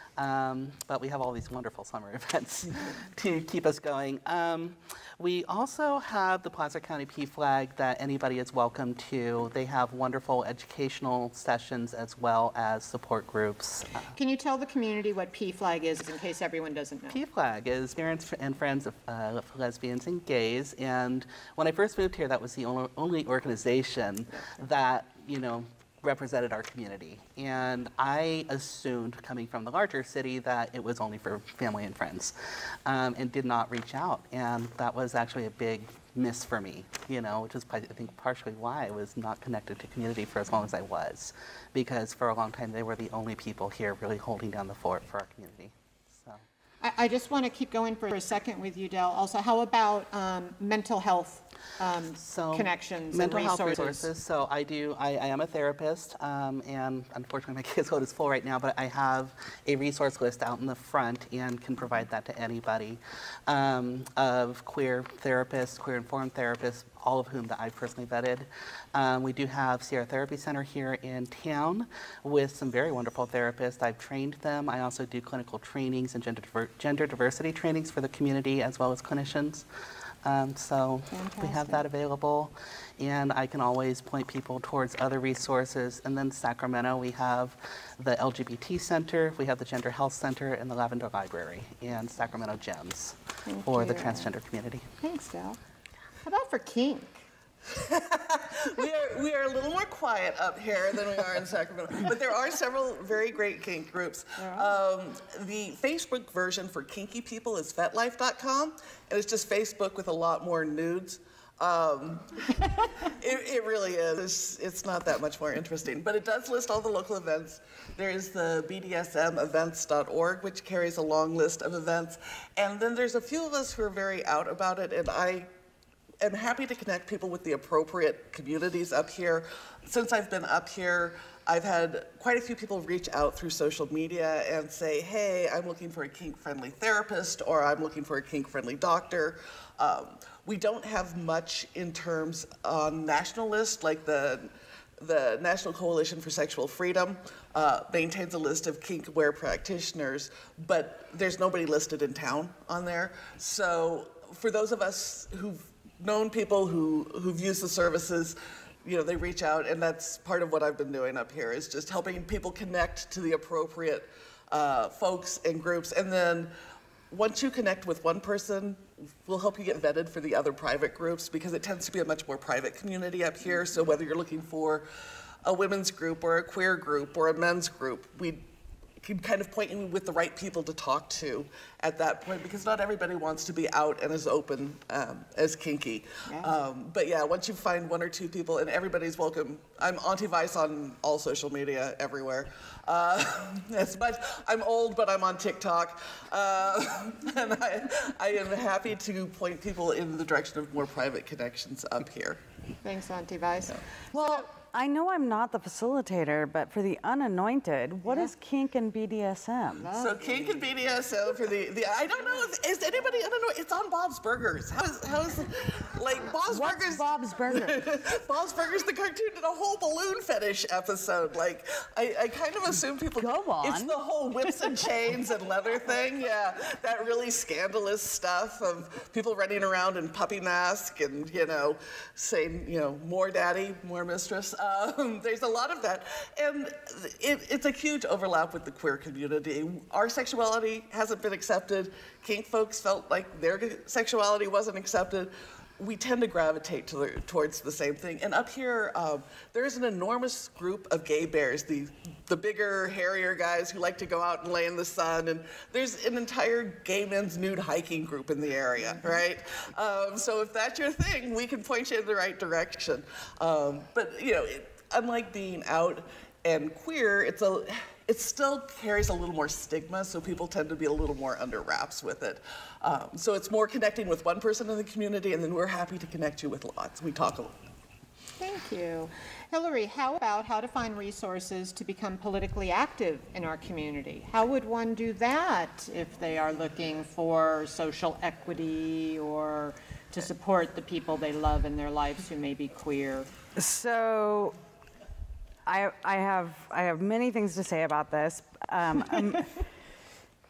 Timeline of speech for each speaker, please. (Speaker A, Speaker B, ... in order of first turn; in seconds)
Speaker A: 0.2-14.1, 17.1-46.4, 52.2-79.7, 80.2-94.9
Speaker B: 14.2-17.2, 46.8-54.1, 81.1-81.8, 93.5-94.3, 95.0-95.6, 96.2-97.2, 104.4-104.7, 186.3-186.5, 202.8-203.8, 209.8-210.7, 258.8-259.2, 278.4-293.3
Speaker C: 97.7-125.5, 126.2-166.5, 167.1-174.9, 175.4-178.4, 179.0-202.4, 209.9-277.6
Speaker D: 204.1-209.9, 216.5-217.9, 223.2-224.0, 293.6-294.6, 295.7-299.7